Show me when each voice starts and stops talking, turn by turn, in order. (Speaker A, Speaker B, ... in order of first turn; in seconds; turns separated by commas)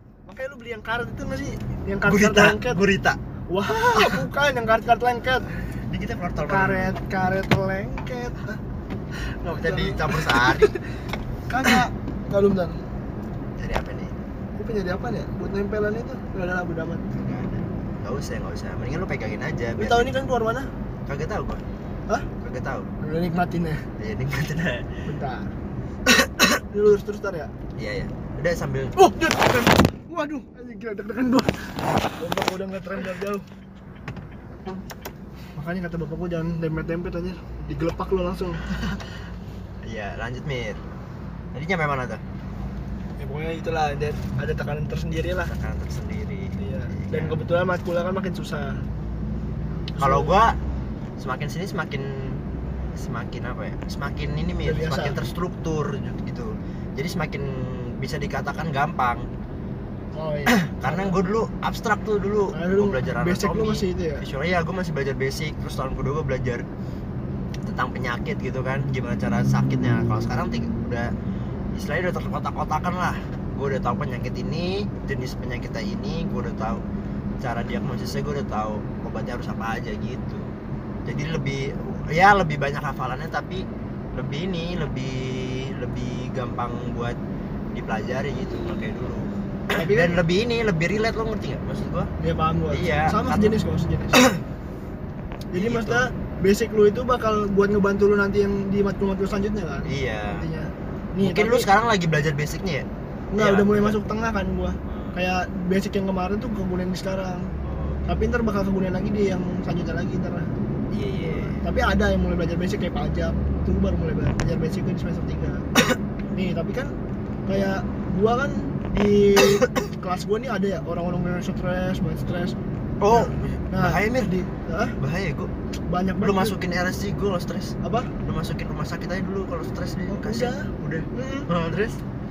Speaker A: 0.3-2.8, Speaker B: 2.1-3.2, Speaker A: 3.5-5.5, Speaker B: 3.9-4.2, Speaker B: 5.9-7.0, Speaker A: 6.5-8.6, Speaker A: 9.4-10.8, Speaker B: 9.5-10.7, Speaker A: 11.5-12.8, Speaker B: 13.6-14.2, Speaker A: 14.6-17.0, Speaker B: 17.1-20.1, Speaker A: 19.8-20.7, Speaker B: 21.1-21.6, Speaker B: 22.4-22.9, Speaker A: 23.0-23.9, Speaker B: 24.0-24.9, Speaker A: 25.1-25.5, Speaker B: 26.1-26.6, Speaker A: 26.7-27.5, Speaker B: 27.8-28.9, Speaker A: 29.0-31.5, Speaker A: 32.0-33.5, Speaker A: 35.5-38.7, Speaker B: 39.8-40.8, Speaker B: 41.5-42.2, Speaker A: 43.2-45.5, Speaker B: 45.5-47.4, Speaker A: 46.6-48.8, Speaker A: 50.0-50.3, Speaker B: 50.0-50.6, Speaker B: 51.2-52.4, Speaker B: 53.0-59.2, Speaker A: 54.6-55.3, Speaker A: 60.1-61.2, Speaker B: 60.5-66.7, Speaker A: 62.5-64.2, Speaker B: 67.6-71.1, Speaker B: 71.7-76.8, Speaker B: 77.4-80.5, Speaker B: 81.1-83.6, Speaker B: 84.2-87.2, Speaker B: 87.7-92.1, Speaker A: 89.7-90.2, Speaker A: 92.2-94.3, Speaker B: 92.7-93.6, Speaker B: 94.1-94.4, Speaker A: 95.5-101.7, Speaker B: 95.5-96.0, Speaker B: 99.9-100.5, Speaker B: 101.2-102.9, Speaker A: 103.3-107.5, Speaker B: 103.4-104.0, Speaker B: 104.8-105.2, Speaker B: 107.6-108.0, Speaker A: 108.1-110.5, Speaker B: 110.9-111.7, Speaker A: 111.2-115.7, Speaker A: 116.3-116.9, Speaker A: 117.5-122.6, Speaker B: 119.4-119.9, Speaker B: 123.0-124.3, Speaker A: 123.1-125.0, Speaker B: 125.0-125.5, Speaker A: 125.9-126.6, Speaker B: 126.2-132.0, Speaker A: 127.8-128.1, Speaker A: 130.1-131.5